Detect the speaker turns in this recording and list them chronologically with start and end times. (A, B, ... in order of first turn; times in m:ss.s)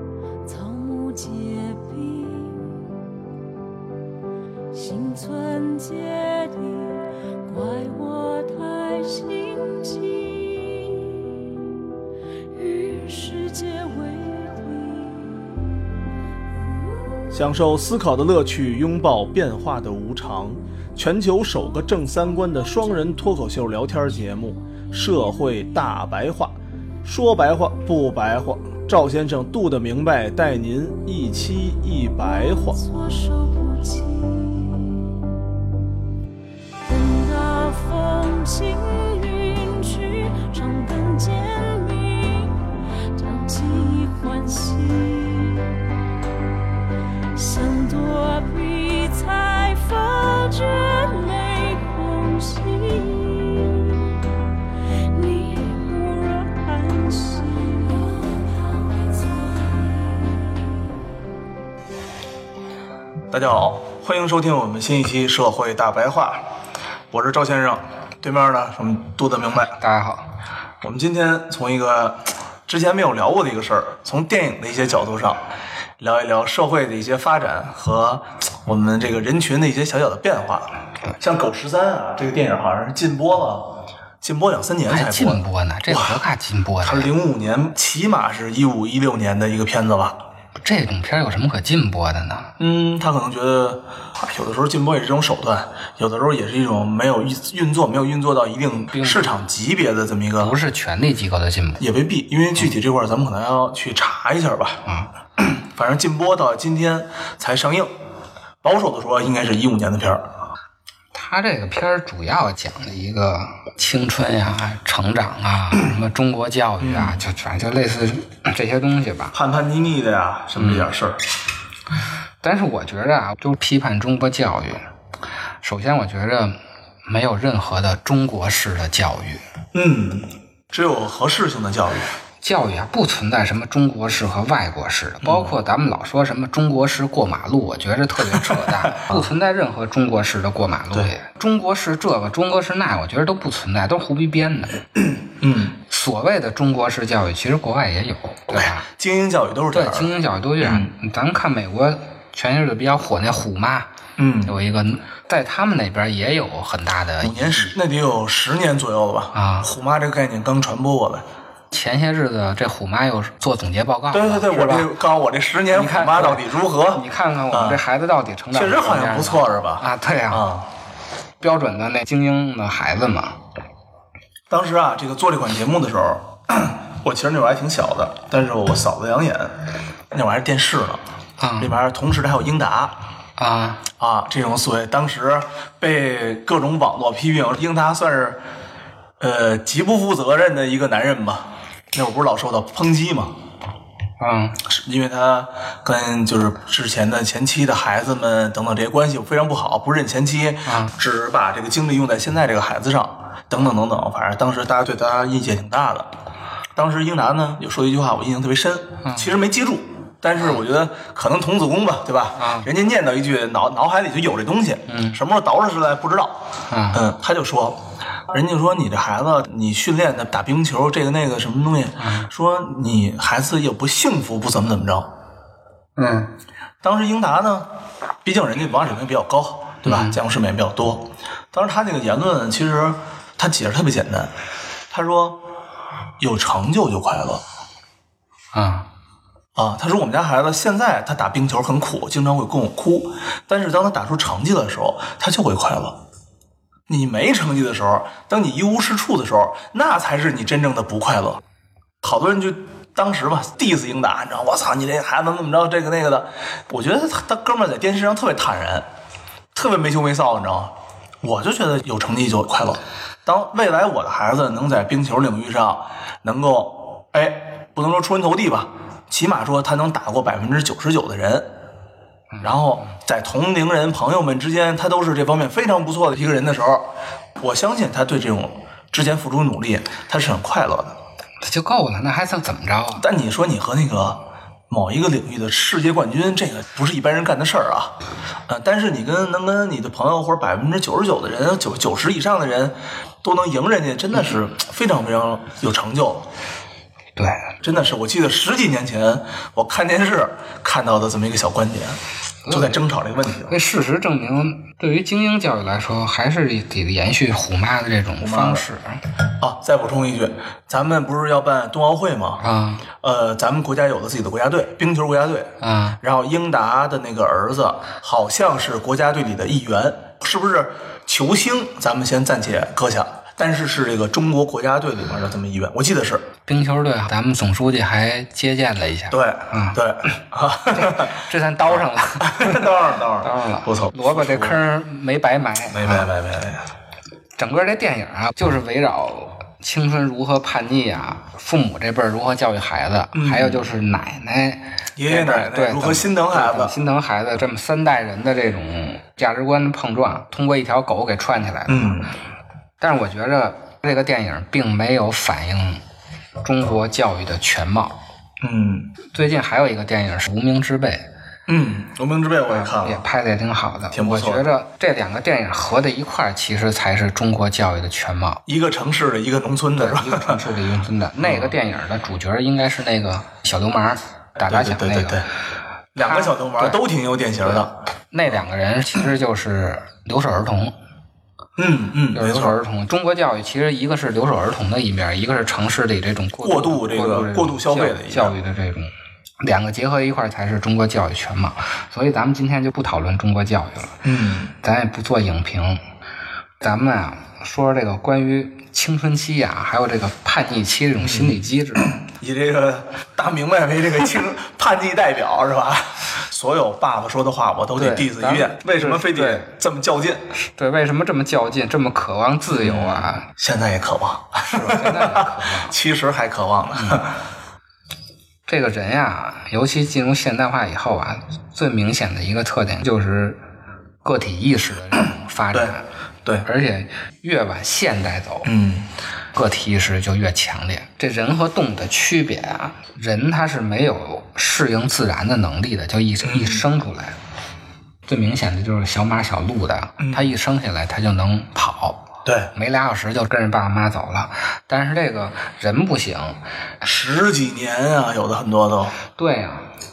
0:00.4-0:02.9 A
0:04.7-0:11.5 A
0:12.5-0:15.5 A
0:17.3-0:32.8 B
0:32.2-0:35.2 A
0:36.9-0:42.6 A
0:43.1-0:45.8 A
0:47.3-0:54.1 A
0:54.9-1:00.5 A
1:03.3-1:06.5 B
1:07.1-1:09.8 B
1:09.6-1:10.3 C
1:10.8-1:15.5 B
1:16.0-1:26.2 B
1:24.9-1:27.1 C
1:26.8-1:30.2 B
1:30.6-1:32.6 C
1:32.6-1:40.6 B
1:38.9-1:39.3 C
1:40.4-1:41.8 C
1:41.8-1:44.8 B
1:45.4-1:47.9 B
1:48.6-1:50.3 B
1:51.1-1:59.4 C
1:56.8-1:57.2 B
1:59.3-2:01.2 B
2:00.6-2:00.9 C
2:02.4-2:04.8 C
2:05.6-2:09.4 C
2:09.7-2:12.1 B
2:12.4-2:24.9 C
2:15.2-2:15.6 B
2:18.3-2:19.3 B
2:25.2-2:25.8 B
2:25.9-2:28.9 C
2:28.5-2:30.9 B
2:29.7-2:33.9 C
2:34.2-2:34.6 B
2:34.4-2:37.8 C
2:37.2-2:41.2 B
2:39.3-2:39.7 C
2:41.7-2:44.9 C
2:44.1-2:47.8 B
2:45.7-2:50.5 C
2:48.5-2:50.7 B
2:51.4-2:53.4 C
2:54.5-3:01.0 B
3:01.4-3:01.7 C
3:01.6-3:03.0 B
3:03.4-3:03.9 C
3:04.0-3:08.4 B
3:09.2-3:13.4 B
3:14.2-3:14.6 C
3:14.6-3:26.1 B
3:20.7-3:20.9 C
3:26.8-3:36.4 B
3:29.0-3:29.3 C
3:32.4-3:32.7 C
3:34.9-3:35.2 C
3:36.7-3:37.0 C
3:36.9-3:45.1 B
3:42.0-3:42.3 C
3:46.0-3:46.3 C
3:46.8-3:47.7 B
3:48.2-3:54.3 B
3:49.8-3:50.2 C
3:54.9-3:55.4 B
3:56.2-3:57.4 B
3:58.5-3:58.9 C
3:59.6-4:06.0 B
4:06.9-4:11.4 B
4:12.0-4:18.9 B
4:19.6-4:31.5 B
4:32.4-4:41.0 B
4:41.4-4:43.0 C
4:43.0-4:48.0 B
4:48.5-4:56.3 B
4:57.2-4:57.5 C
4:57.6-5:03.6 B
5:02.4-5:02.8 C
5:03.5-5:09.0 C
5:08.2-5:08.6 B
5:09.4-5:12.4 B
5:12.4-5:12.9 C
5:13.0-5:26.3 B
5:15.6-5:16.0 C
5:26.5-5:29.8 C
5:29.1-5:34.6 B
5:30.7-5:36.1 C
5:35.7-5:36.7 B
5:37.4-5:52.1 C
5:43.1-5:43.6 B
5:45.0-5:46.8 B
5:51.7-5:52.1 B
5:52.8-5:55.8 C
5:56.4-5:58.0 C
5:58.4-5:58.9 B
5:59.1-6:01.1 C
6:01.5-6:03.0 B
6:02.5-6:08.4 C
6:03.9-6:04.5 B
6:08.5-6:10.4 B
6:09.7-6:15.2 C
6:11.2-6:11.6 B
6:14.4-6:15.3 B
6:15.9-6:17.8 B
6:16.0-6:16.8 C
6:17.4-6:20.7 C
6:21.6-6:22.6 B
6:22.1-6:34.0 C
6:26.4-6:28.4 B
6:34.0-6:34.5 B
6:34.6-6:35.8 C
6:36.6-6:41.9 C
6:41.0-6:50.3 B
6:47.8-6:49.5 C
6:50.3-6:53.3 C
6:52.5-6:57.2 B
6:54.5-6:55.8 C
6:56.8-6:57.0 C
6:58.5-7:03.4 C
7:04.0-7:05.9 C
7:05.5-7:06.5 B
7:06.4-7:08.5 C
7:08.4-7:08.9 B
7:09.4-7:17.2 C
7:16.2-7:16.7 B
7:18.1-7:26.4 C
7:20.0-7:20.3 B
7:22.2-7:22.5 B
7:26.8-7:29.0 B
7:29.2-7:29.7 C